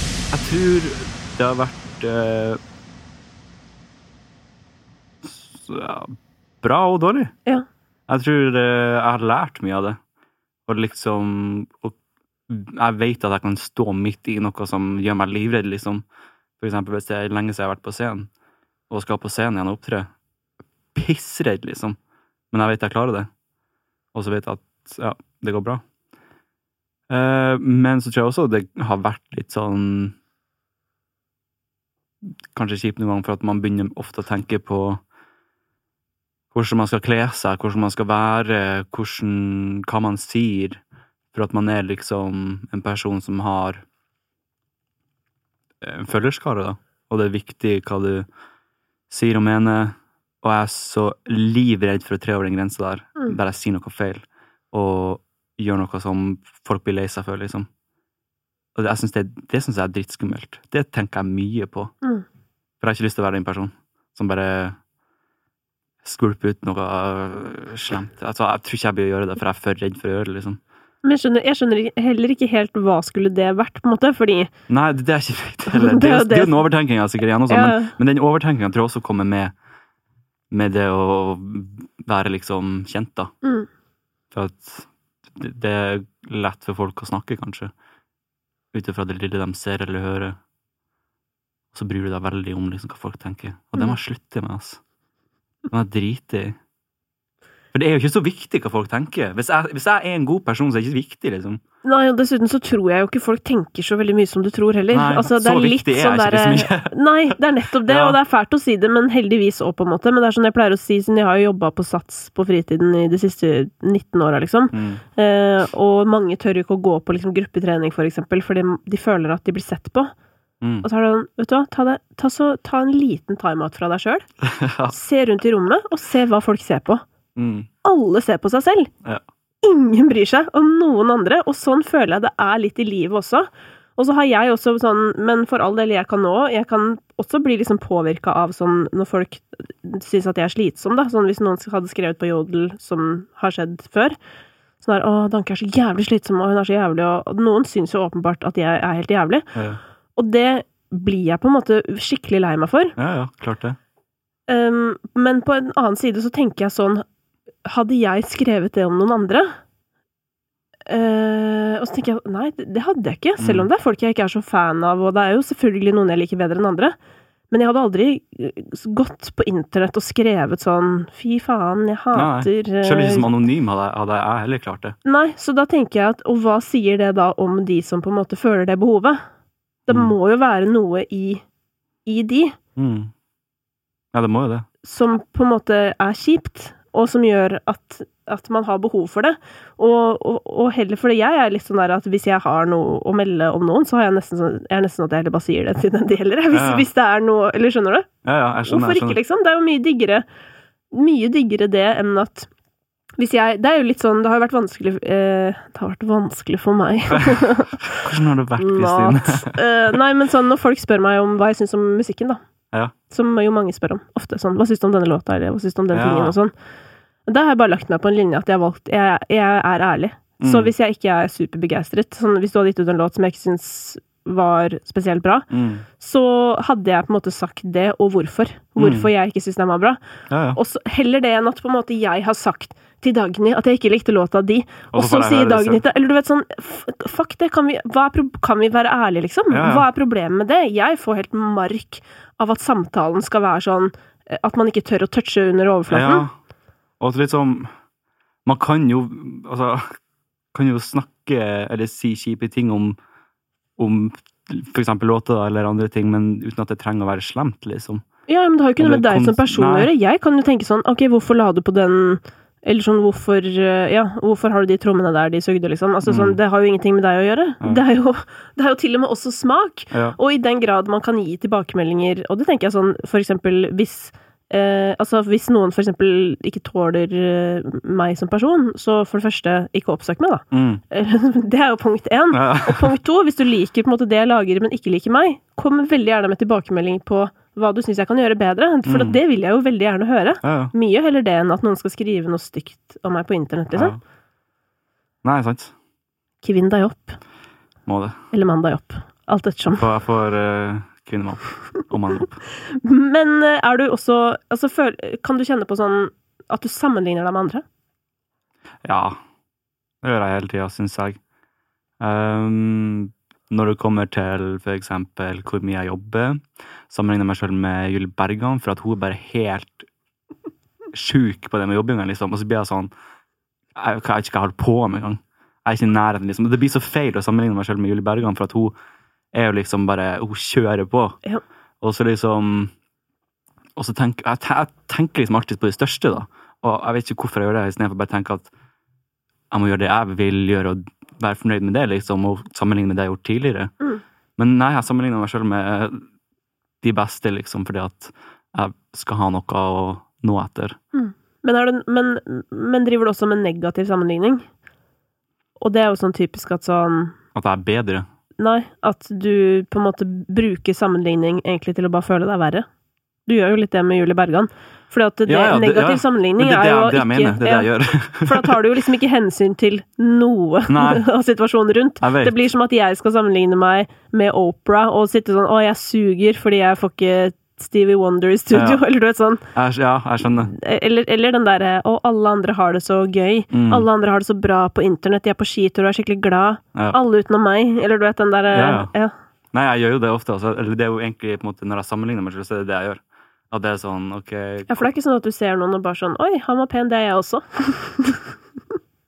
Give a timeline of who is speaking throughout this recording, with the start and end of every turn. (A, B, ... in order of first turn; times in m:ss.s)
0:00.3-0:02.6 A
0:05.2-0:07.3 A
0:08.1-0:10.0 A
0:10.7-0:12.0 A
0:12.5-0:16.0 A
0:16.6-0:18.3 A
0:18.9-0:20.1 A
0:21.0-0:22.0 A
0:22.5-0:23.3 A
0:24.1-0:25.8 A
0:27.1-0:30.1 A
0:32.2-0:35.0 A
0:36.5-0:40.8 A
0:41.3-0:43.8 A
0:45.8-0:48.3 A
0:49.1-0:57.7 A
0:58.8-1:01.9 A
1:02.8-1:04.8 A
1:06.0-1:10.6 A
1:11.0-1:14.5 B
1:14.7-1:19.5 A
1:15.7-1:16.6 B
1:17.5-1:17.9 B
1:20.5-1:23.3 A
1:23.4-1:23.7 B
1:24.3-1:27.7 A
1:28.7-1:30.4 A
1:31.7-1:34.8 A
1:35.7-1:36.6 A
1:37.7-1:41.6 A
1:41.8-2:00.1 B
1:44.9-1:48.2 A
1:54.7-1:55.0 A
2:00.8-2:04.2 B
2:04.5-2:04.9 A
2:04.9-2:07.0 B
2:07.4-2:07.7 A
2:07.8-2:08.9 B
2:09.6-2:24.2 B
2:24.8-2:29.5 B
2:29.5-2:29.8 A
2:30.2-2:32.9 B
2:33.0-2:33.8 A
2:34.5-2:37.0 B
2:37.6-2:39.6 B
2:40.9-2:47.0 B
2:43.4-2:43.7 A
2:47.5-2:53.4 B
2:52.1-2:55.0 A
2:55.0-2:59.2 B
2:59.9-3:00.1 A
2:59.9-3:01.4 B
3:02.0-3:02.6 B
3:02.8-3:03.1 A
3:04.1-3:04.6 A
3:04.8-3:18.1 B
3:16.5-3:16.9 A
3:18.2-3:19.2 A
3:18.6-3:20.2 B
3:20.9-3:22.5 B
3:23.2-3:27.8 B
3:27.1-3:29.6 A
3:28.6-3:32.4 B
3:33.1-3:36.5 B
3:35.9-3:36.4 A
3:37.2-3:50.0 B
3:40.4-3:40.7 A
3:45.5-3:45.9 A
3:48.8-3:49.1 A
3:50.3-3:50.6 A
3:50.6-4:06.3 B
3:54.9-3:55.8 A
3:59.5-3:59.9 A
4:05.9-4:06.4 A
4:07.0-4:07.7 A
4:08.4-4:09.8 A
4:10.5-4:13.0 A
4:13.8-4:18.0 A
4:18.3-4:53.9 B
4:18.8-4:19.9 A
4:26.0-4:26.4 A
4:29.9-4:30.2 A
4:40.5-4:40.8 A
4:42.3-4:42.9 A
4:48.8-4:49.2 A
4:50.4-4:50.7 A
4:53.7-4:54.0 A
4:55.2-4:55.7 A
4:56.4-4:57.2 B
4:57.9-4:58.2 A
4:58.3-4:59.8 B
4:59.8-5:02.4 A
5:02.8-5:07.6 B
5:08.8-5:09.2 A
5:10.0-5:11.2 A
5:12.0-5:19.9 A
5:20.9-5:22.9 A
5:23.8-5:28.7 A
5:29.3-5:31.2 A
5:31.8-5:32.7 A
5:33.8-5:38.5 A
5:39.5-5:43.7 A
5:44.4-5:46.0 A
5:46.8-5:50.8 A
5:50.9-5:54.4 B
5:55.6-5:57.1 B
5:57.4-5:58.1 A
5:58.4-6:02.7 B
6:03.2-6:07.7 B
6:05.2-6:08.6 A
6:08.2-6:19.4 B
6:10.7-6:11.1 A
6:12.0-6:12.4 A
6:18.5-6:18.8 A
6:19.5-6:20.5 A
6:20.5-6:29.1 B
6:23.5-6:23.9 A
6:28.5-6:28.9 A
6:29.5-6:34.9 A
6:34.7-6:38.3 B